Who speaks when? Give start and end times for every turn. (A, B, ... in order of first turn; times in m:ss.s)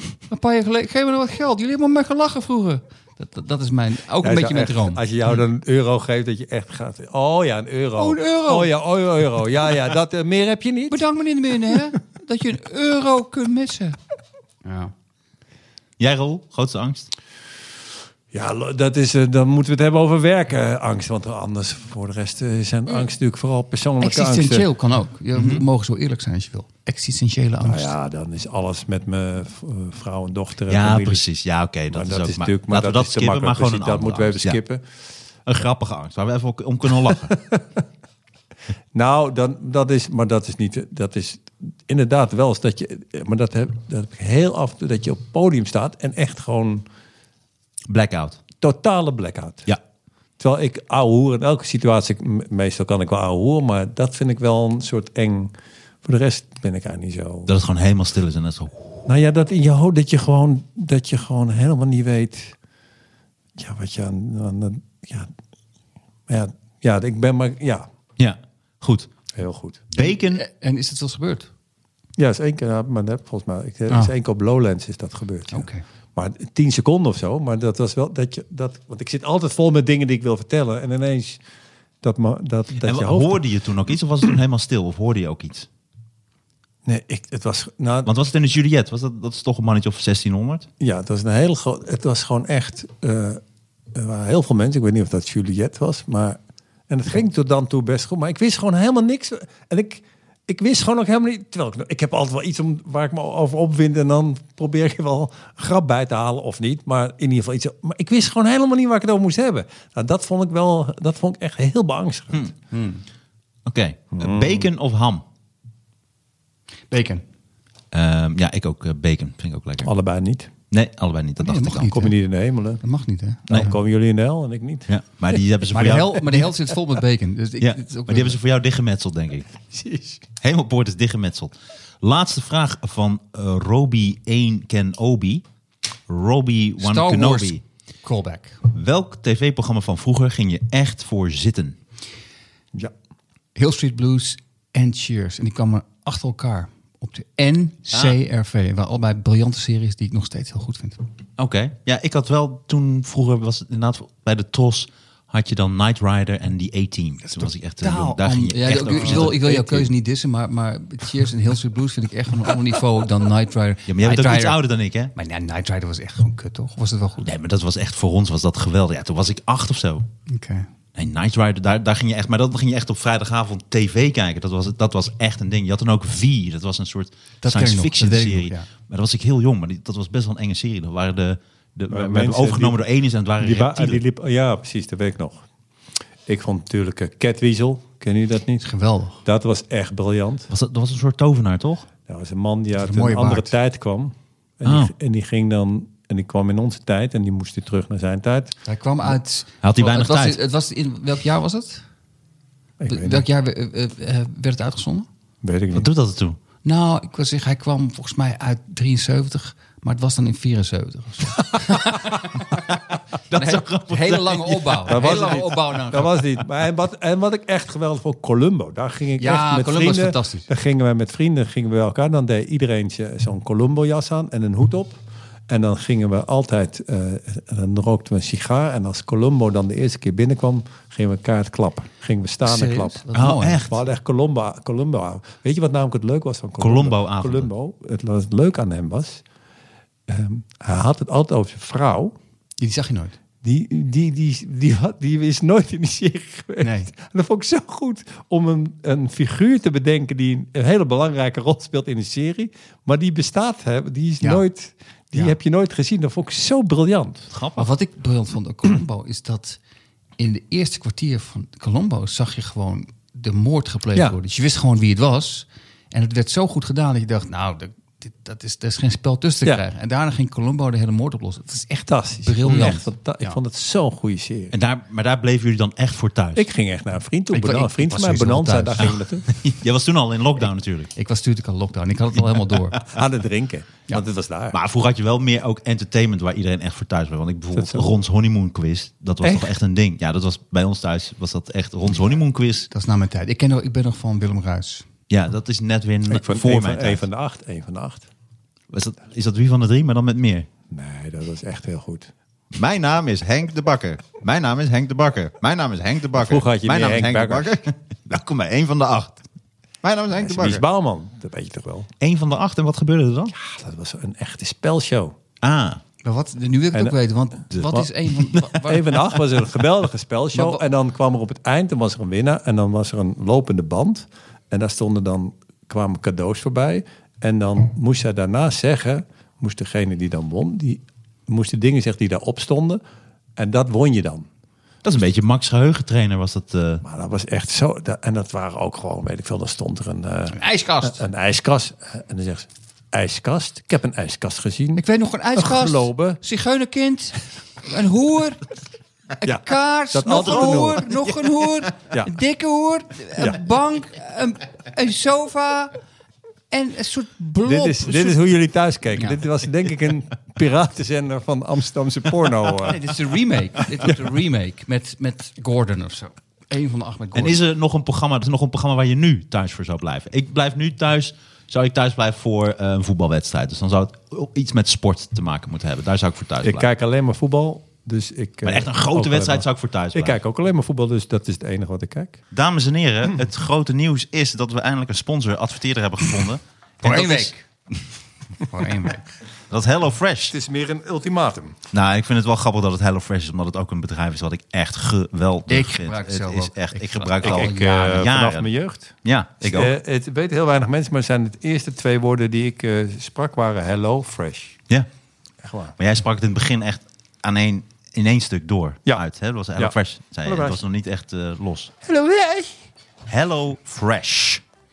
0:00.3-0:05.0 A
0:04.2-0:11.0 B
0:08.0-0:08.7 A
0:10.9-0:14.0 A
0:14.6-0:14.9 A
0:16.0-0:17.1 C
0:18.3-0:24.7 B
0:24.0-0:27.9 A
0:25.3-0:25.6 C
0:27.6-0:31.2 B
0:30.7-0:34.6 C
0:31.9-0:34.8 B
0:35.5-0:37.3 C
0:37.0-0:37.8 B
0:38.9-0:46.8 B
0:47.9-0:48.4 C
0:48.6-0:49.7 B
0:50.4-0:55.5 B
0:56.0-0:57.5 B
0:57.5-0:59.0 C
0:59.0-1:02.5 B
1:03.6-1:05.3 B
1:06.3-1:07.9 B
1:08.2-1:09.1 C
1:09.4-1:09.8 B
1:09.9-1:10.4 C
1:10.0-1:11.5 A
1:12.2-1:21.4 B
1:15.5-1:15.8 A
1:22.0-1:23.4 B
1:22.8-1:25.7 C
1:26.8-1:28.1 B
1:28.0-1:30.7 C
1:30.8-1:33.4 B
1:33.9-1:52.4 B
1:52.7-1:53.0 A
1:53.6-1:55.2 C
1:54.2-1:54.7 B
1:56.9-1:57.2 A
1:57.9-1:59.9 C
1:59.8-2:00.5 B
2:00.7-2:02.0 C
2:01.4-2:02.1 A
2:01.9-2:02.8 B
2:02.8-2:03.7 A
2:03.5-2:04.9 B
2:04.9-2:06.5 C
2:05.7-2:08.4 A
2:07.6-2:09.5 C
2:09.7-2:10.2 B
2:10.4-2:15.4 C
2:16.1-2:17.6 C
2:16.8-2:18.6 A
2:18.7-2:21.8 C
2:23.5-2:31.0 A
2:27.9-2:28.2 C
2:31.4-2:39.6 C
2:37.2-2:44.6 A
2:38.7-2:39.9 B
2:43.9-2:45.1 C
2:45.1-2:47.3 A
2:47.2-2:50.0 C
2:50.3-2:50.7 A
2:51.0-3:04.0 C
2:57.4-2:58.7 A
3:01.9-3:02.8 B
3:03.4-3:05.4 B
3:06.2-3:08.6 B
3:08.6-3:09.2 A
3:09.2-3:10.5 B
3:10.5-3:11.8 C
3:12.1-3:18.5 B
3:12.8-3:13.5 A
3:14.6-3:14.9 C
3:18.6-3:21.8 A
3:19.6-3:20.4 C
3:22.8-3:23.2 B
3:22.9-3:25.1 A
3:25.4-3:25.9 B
3:25.7-3:26.4 C
3:26.6-3:32.7 A
3:33.3-3:35.5 C
3:33.3-3:36.2 A
3:34.8-3:53.1 B
3:39.2-3:40.5 A
3:52.4-3:53.7 A
3:53.1-3:53.7 C
3:53.6-3:59.2 B
3:56.6-3:57.5 C
4:00.1-4:02.1 B
4:02.6-4:03.1 A
4:03.4-4:17.3 B
4:06.6-4:06.9 A
4:17.3-4:17.7 C
4:17.6-4:19.6 A
4:20.2-4:33.4 A
4:31.9-4:34.5 B
4:32.5-4:32.8 C
4:34.5-4:36.4 C
4:36.3-4:39.3 B
4:37.3-4:38.9 A
4:38.8-4:40.9 C
4:40.9-4:42.8 A
4:42.8-4:44.6 B
4:44.5-4:52.7 C
4:47.5-4:47.9 B
4:49.2-4:49.6 B
4:52.7-4:54.8 A
4:55.1-4:57.0 C
4:56.1-4:58.0 B
4:58.7-5:00.5 C
5:00.7-5:02.1 B
5:02.5-5:09.2 C
5:06.1-5:07.6 B
5:09.8-5:10.6 C
5:10.2-5:11.9 B
5:12.0-5:13.3 C
5:13.3-5:15.1 B
5:15.4-5:15.8 C
5:16.0-5:19.1 A
5:17.5-5:32.8 B
5:20.3-5:20.6 A
5:33.4-5:34.3 B
5:34.8-5:36.8 C
5:36.8-5:44.8 B
5:40.3-5:41.0 A
5:44.8-5:48.4 A
5:45.3-5:46.2 B
5:49.2-5:55.7 A
5:49.2-5:50.8 B
5:50.1-5:51.0 C
5:56.5-5:58.2 A
5:57.4-6:02.8 B
5:58.9-5:59.2 A
6:02.6-6:07.4 A
6:07.1-6:16.6 C
6:16.4-6:22.2 B
6:18.4-6:20.2 C
6:22.3-6:27.3 C
6:26.8-6:27.4 A
6:28.4-6:29.1 A
6:29.5-6:30.4 C
6:30.3-6:31.6 B
6:31.7-6:38.5 C
6:35.5-6:38.1 A
6:37.2-6:44.6 B
6:39.0-6:39.7 C
6:45.4-6:45.8 B
6:45.8-6:51.7 C
6:49.6-6:50.6 B
6:51.8-6:52.6 B
6:53.1-6:54.4 C